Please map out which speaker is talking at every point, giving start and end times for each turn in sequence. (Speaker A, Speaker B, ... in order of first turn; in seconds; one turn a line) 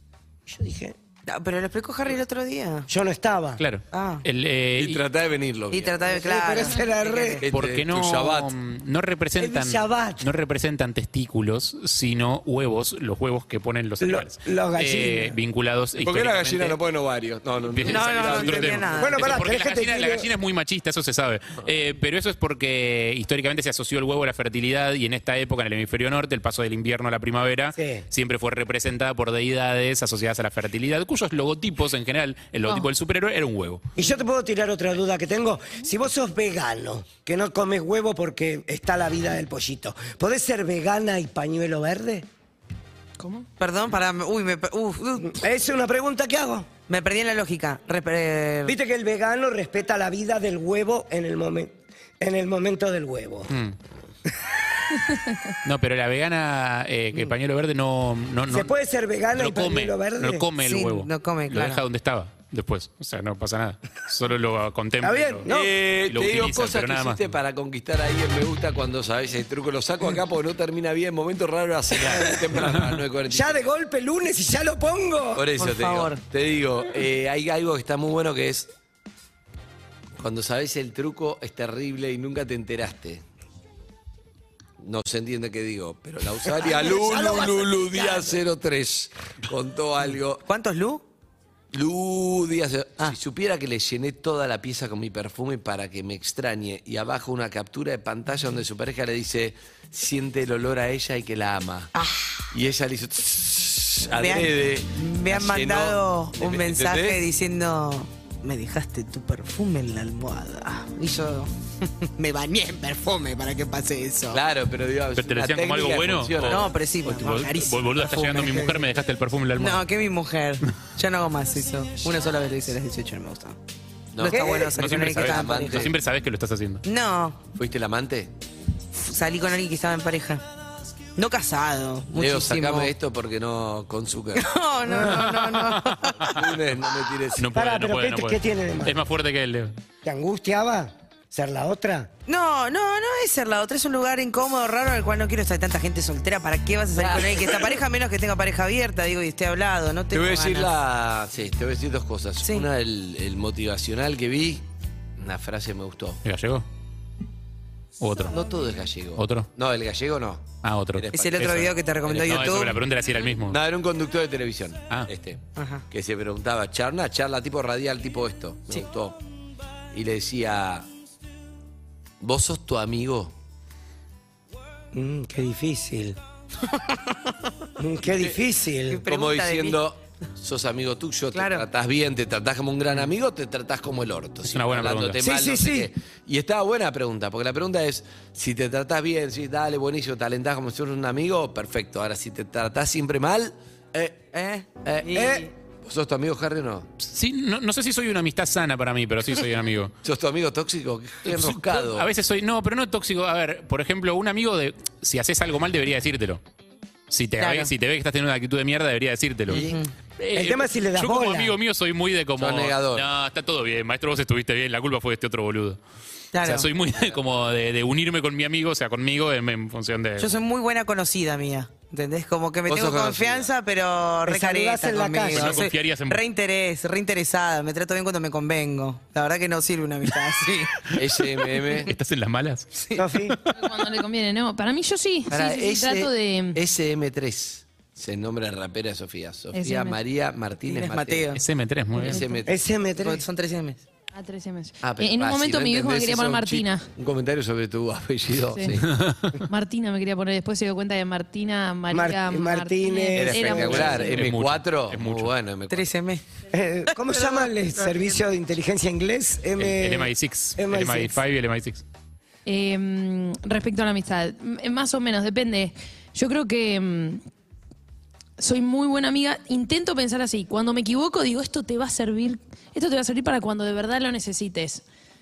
Speaker A: 0.5-1.0
Speaker B: 1.3-2.9
Speaker A: 2.9-3.6
Speaker C: 3.6-5.0
Speaker B: 3.9-4.2
Speaker D: 4.8-6.2
Speaker B: 5.7-7.5
Speaker A: 6.1-7.4
Speaker D: 7.4-8.5
Speaker C: 7.5-16.8
Speaker A: 9.4-10.3
Speaker A: 14.0-15.4
Speaker D: 16.0-19.0
Speaker C: 17.6-33.9
Speaker B: 17.9-19.3
Speaker A: 19.0-20.3
Speaker A: 27.8-28.0
Speaker A: 34.0-42.3
Speaker E: 43.2-43.5
Speaker B: 43.6-45.4
Speaker A: 45.2-46.7
Speaker B: 46.9-48.8
Speaker A: 48.6-53.5
Speaker C: 53.5-53.8
Speaker C: 55.6-58.7
Speaker A: 58.5-60.5
Speaker C: 59.3-65.5
Speaker B: 60.6-61.8
Speaker A: 65.0-65.7
Speaker D: 65.5-73.7
Speaker C: 66.0-67.3
Speaker C: 72.0-73.0
Speaker A: 73.3-75.5
Speaker D: 75.3-78.7
Speaker B: 75.6-76.2
Speaker D: 80.2-83.2
Speaker D: 84.8-90.4
Speaker A: 86.6-88.3
Speaker B: 90.5-91.0
Speaker D: 91.7-101.9
Speaker D: 102.5-107.2
Speaker B: 104.1-111.5
Speaker B: 112.1-114.4
Speaker D: 114.3-116.7
Speaker C: 115.2-119.8
Speaker B: 116.4-118.8
Speaker B: 119.6-123.6
Speaker D: 124.1-125.9
Speaker B: 124.2-125.9
Speaker A: 124.3-124.7
Speaker C: 124.8-126.8
Speaker B: 126.8-127.4
Speaker D: 127.5-128.3
Speaker B: 128.9-130.4
Speaker B: 131.2-132.9
Speaker D: 132.2-134.5
Speaker B: 134.4-136.3
Speaker C: 135.2-136.4
Speaker D: 136.3-137.4
Speaker C: 137.4-139.7
Speaker A: 137.5-139.0
Speaker A: 140.0-142.1
Speaker B: 142.3-150.7
Speaker D: 146.9-147.8
Speaker D: 150.1-154.6
Speaker D: 155.2-156.2
Speaker C: 156.2-156.7
Speaker C: 158.0-158.3
Speaker D: 158.3-162.8
Speaker C: 159.2-159.5
Speaker C: 160.6-163.6
Speaker B: 161.1-162.8
Speaker D: 163.5-169.2
Speaker B: 165.6-165.8
Speaker D: 169.9-170.9
Speaker D: 172.2-173.3
Speaker A: 174.9-176.2
Speaker A: 177.8-179.0
Speaker D: 178.0-178.4
Speaker B: 178.9-179.8
Speaker D: 179.1-194.2
Speaker B: 181.3-181.7
Speaker C: 184.5-185.2
Speaker A: 185.2-185.9
Speaker B: 194.3-195.5
Speaker D: 194.8-196.9
Speaker C: 197.0-199.9
Speaker D: 200.0-202.1
Speaker C: 201.3-206.4
Speaker C: 207.1-209.7
Speaker B: 207.4-207.7
Speaker D: 209.5-209.8
Speaker B: 209.5-209.9
Speaker C: 210.2-215.8
Speaker A: 210.3-211.6
Speaker D: 212.4-213.1
Speaker B: 216.3-216.7
Speaker C: 216.4-220.4
Speaker B: 220.2-230.9
Speaker D: 222.7-223.5
Speaker A: 224.3-225.6
Speaker C: 225.3-226.2
Speaker D: 230.9-231.9
Speaker C: 231.7-232.7
Speaker A: 232.9-233.4
Speaker E: 233.5-236.6
Speaker D: 235.3-241.4
Speaker E: 239.5-240.0
Speaker B: 240.7-241.4
Speaker C: 241.3-242.2
Speaker D: 241.9-242.6
Speaker E: 242.0-242.2
Speaker A: 242.5-243.2
Speaker B: 243.0-243.8
Speaker E: 244.1-246.9
Speaker D: 244.8-248.9
Speaker E: 248.5-248.8
Speaker C: 248.9-249.4
Speaker E: 249.5-254.1
Speaker A: 251.9-254.1
Speaker D: 253.2-255.9
Speaker C: 253.7-255.3
Speaker B: 255.7-256.2
Speaker A: 256.5-261.2
Speaker C: 259.6-261.8
Speaker E: 262.4-267.2
Speaker E: 268.4-274.8